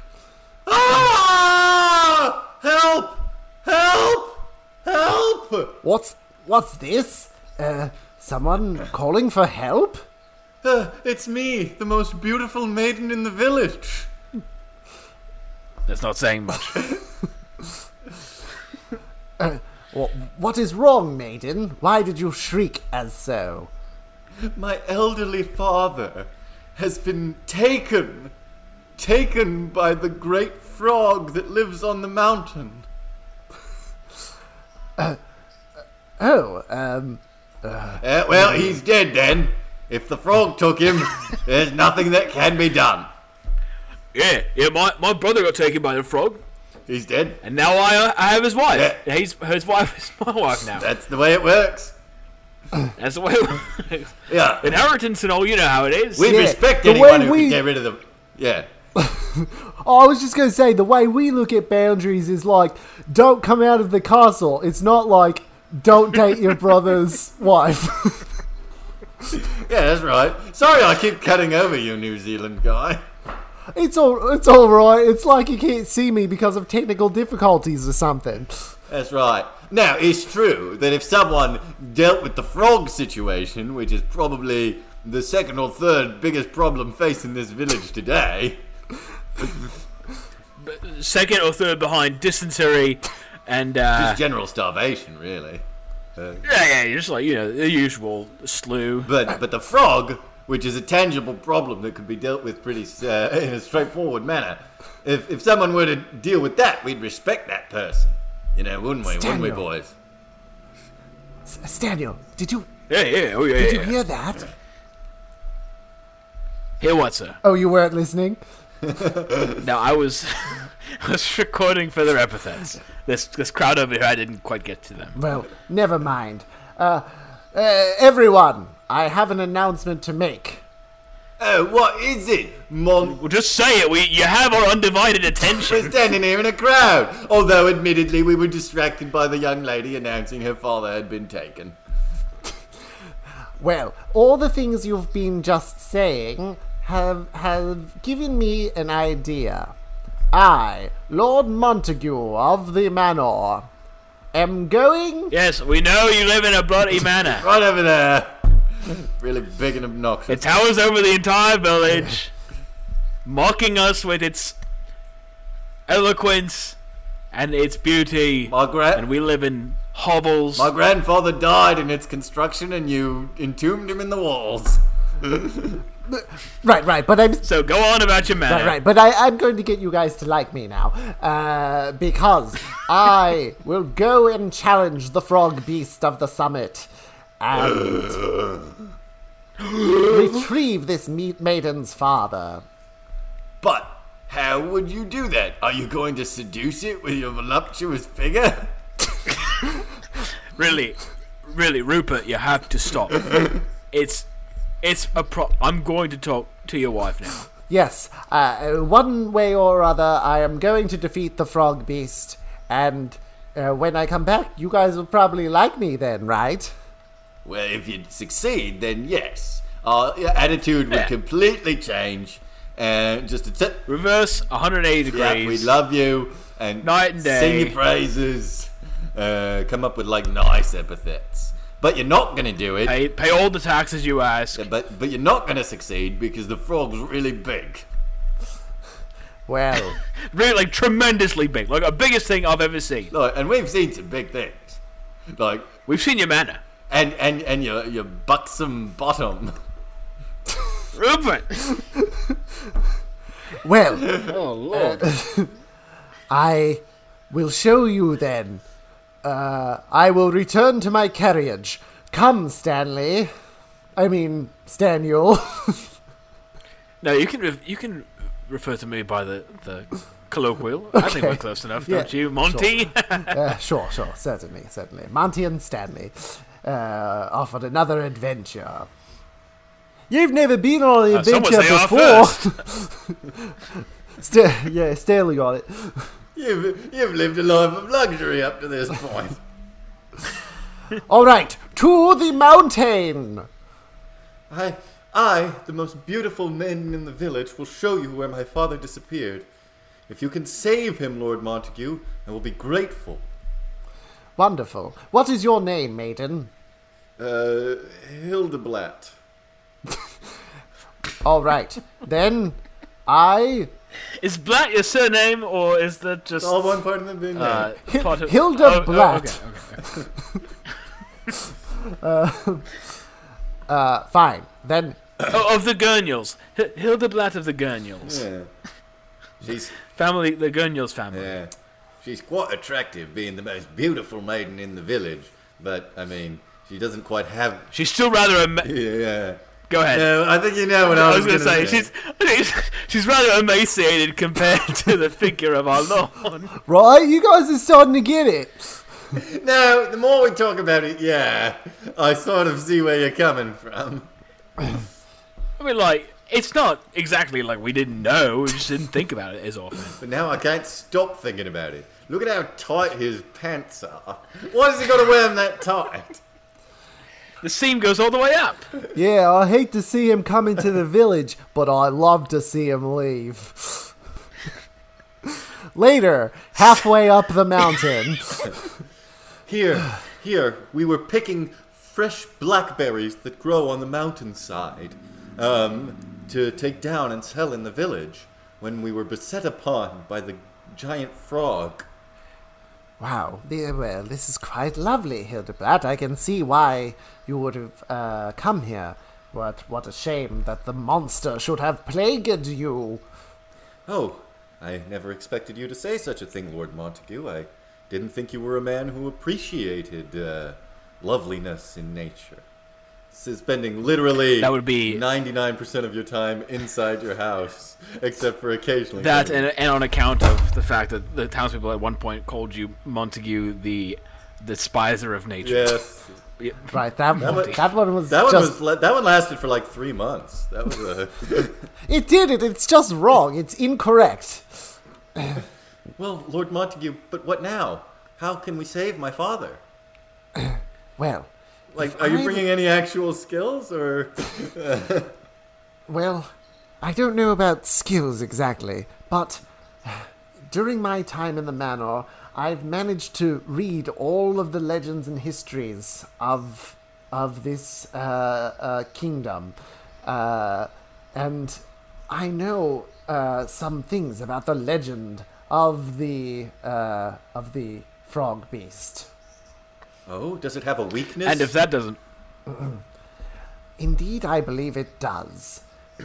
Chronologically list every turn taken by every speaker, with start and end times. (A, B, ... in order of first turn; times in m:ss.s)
0:00.6-0:05.8 A
0:05.8-0:10.0 B
0:10.6-0:14.1 A
0:15.9-0:16.9 C
0:19.4-0:23.7 B
0:24.4-0:28.3 A
0:29.0-0:32.8 A
0:36.2-0:38.8 B
0:38.0-0:43.1 A
0:44.1-0:46.4 C
0:46.9-0:47.4 A
0:47.4-0:50.9 C
0:48.7-0:49.0 A
0:50.8-0:51.9 A
0:53.0-0:56.4 C
0:54.3-0:54.8 A
0:56.2-0:58.7 A
0:56.2-0:57.6 B
0:58.9-1:08.3 B
1:09.3-1:13.0 A
1:13.7-1:18.7 B
1:18.9-1:28.6 A
1:30.6-1:34.2 C
1:33.9-1:35.6 A
1:36.2-1:36.4 A
1:36.4-1:39.1 C
1:39.0-1:49.9 A
1:49.0-1:49.6 B
1:51.4-1:52.7 B
1:52.9-1:54.0 C
1:53.6-1:54.5 B
1:56.8-1:57.4 C
1:57.4-1:58.4 B
1:58.9-1:59.6 A
1:59.6-2:05.2 C
2:05.2-2:10.6 B
2:11.4-2:13.2 A
2:13.0-2:16.0 C
2:15.6-2:21.8 A
2:23.6-2:29.7 B
2:30.3-2:33.7 B
2:34.3-2:35.3 B
2:35.3-2:37.5 C
2:37.3-2:40.4 A
2:40.3-2:42.3 C
2:43.2-2:44.6 C
2:45.9-2:46.8 C
2:47.3-2:50.7 C
2:48.5-2:49.0 A
2:50.6-2:55.8 A
2:56.1-2:57.4 B
2:57.4-2:58.8 C
2:58.5-3:06.9 B
3:07.4-3:08.2 B
3:07.5-3:08.8 A
3:09.6-3:10.3 C
3:10.0-3:12.6 B
3:13.6-3:18.7 A
3:20.6-3:24.2 C
3:24.8-3:27.4 C
3:27.7-3:36.7 B
3:37.4-3:43.8 A
3:43.9-3:45.7 C
3:45.1-3:53.0 A
3:46.8-3:47.8 C
3:52.8-3:54.6 C
3:54.6-3:57.8 A
3:59.5-4:00.0 B
4:00.3-4:03.1 C
4:03.1-4:04.8 A
4:05.3-4:05.7 A
4:05.9-4:06.6 C
4:06.9-4:09.5 A
4:10.9-4:11.8 C
4:12.0-4:12.4 B
4:13.6-4:15.5 B
4:14.0-4:14.3 A
4:14.2-4:15.1 C
4:16.3-4:18.6 B
4:19.2-4:23.3 B
4:24.0-4:25.9 B
4:27.0-4:33.4 C
4:30.9-4:32.7 B
4:33.3-4:38.9 B
4:40.1-4:46.1 B
4:41.1-4:42.6 C
4:46.4-4:49.4 A
4:51.1-4:53.5 B
4:54.5-4:59.4 A
5:00.1-5:03.2 A
5:04.4-5:06.5 B
5:07.2-5:09.1 A
5:11.2-5:13.7 B
5:14.2-5:16.7 C
5:16.4-5:17.7 A
5:17.3-5:19.9 C
5:17.9-5:19.4 B
5:21.3-5:22.9 B
5:23.7-5:25.0 B
5:25.3-5:28.2 C
5:28.0-5:28.5 A
5:29.4-5:29.8 A
5:29.8-5:31.3 C
5:31.1-5:31.5 A
5:32.0-5:37.7 A
5:37.7-5:38.7 C
5:38.6-5:39.4 A
5:39.7-5:40.0 C
5:39.9-5:41.9 A
5:40.9-5:46.5 C
5:46.6-5:48.8 B
5:49.1-5:54.1 A
5:55.6-6:00.0 C
6:00.0-6:06.2 A
6:07.4-6:08.7 C
6:08.9-6:13.9 B
6:15.2-6:18.5 B
6:19.5-6:31.9 A
6:33.0-6:43.0 B
6:43.9-6:52.4 A
6:53.1-6:59.5 A
6:54.4-6:55.0 C
6:59.0-7:05.8 C
7:05.4-7:06.1 A
7:06.4-7:07.6 C
7:06.7-7:08.6 B
7:07.2-7:11.6 A
7:11.9-7:15.4 B
7:16.0-7:19.6 A
7:20.4-7:22.5 B
7:21.7-7:25.1 A
7:25.9-7:26.3 B
7:26.8-7:49.1 B
7:50.1-7:51.5 A
7:51.2-7:52.0 C
7:52.5-7:52.8 B
7:53.8-7:55.6 B